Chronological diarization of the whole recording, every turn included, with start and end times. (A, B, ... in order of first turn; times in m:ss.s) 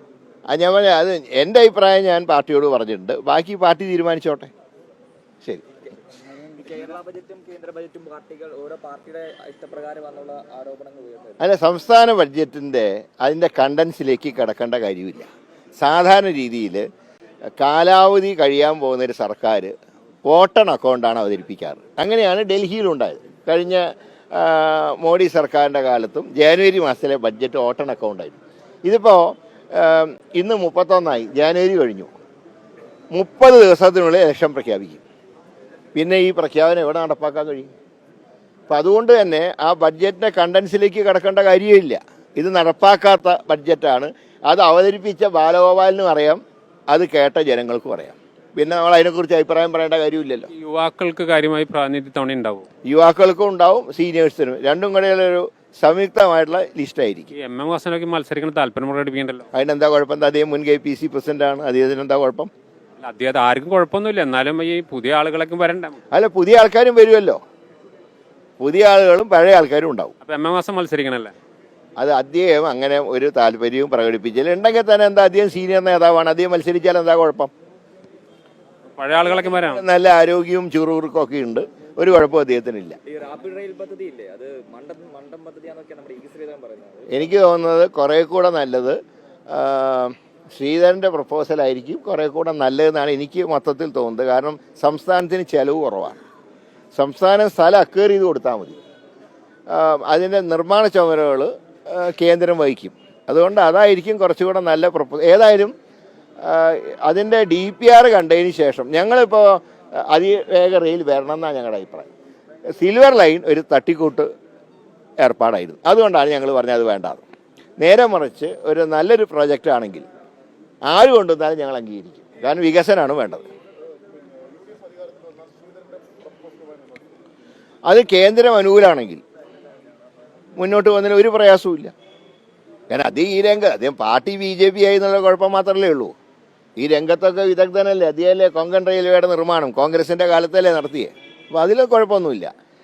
0:00.5-0:04.5 A
0:06.5-0:11.4 B
0:11.4-0:15.3 A
0:15.8-0:16.9 A
0:17.6-0:19.7 A
0:20.3-0:32.1 A
0:33.1-0:35.0 A
0:36.0-0:37.7 A
0:38.7-0:50.5 A
0:50.5-0:52.7 C
0:52.8-0:57.3 A
0:57.3-0:59.5 C
0:59.5-1:02.5 A
1:03.0-1:06.0 C
1:06.1-1:07.4 A
1:08.6-1:10.1 A
1:10.2-1:11.3 C
1:12.0-1:17.5 A
1:18.9-1:19.8 C
1:19.2-1:23.0 A
1:23.1-1:27.3 B
1:27.1-1:29.0 A
1:29.5-1:36.2 A
1:37.0-1:38.8 A
1:39.7-1:45.7 A
1:46.4-1:52.1 A
1:52.7-1:54.3 A
1:55.2-1:57.2 A
1:57.8-2:00.1 A
2:00.9-2:03.5 A
2:07.9-2:09.2 A
2:10.6-2:11.9 A
2:12.9-2:16.1 A
2:16.8-2:22.5 A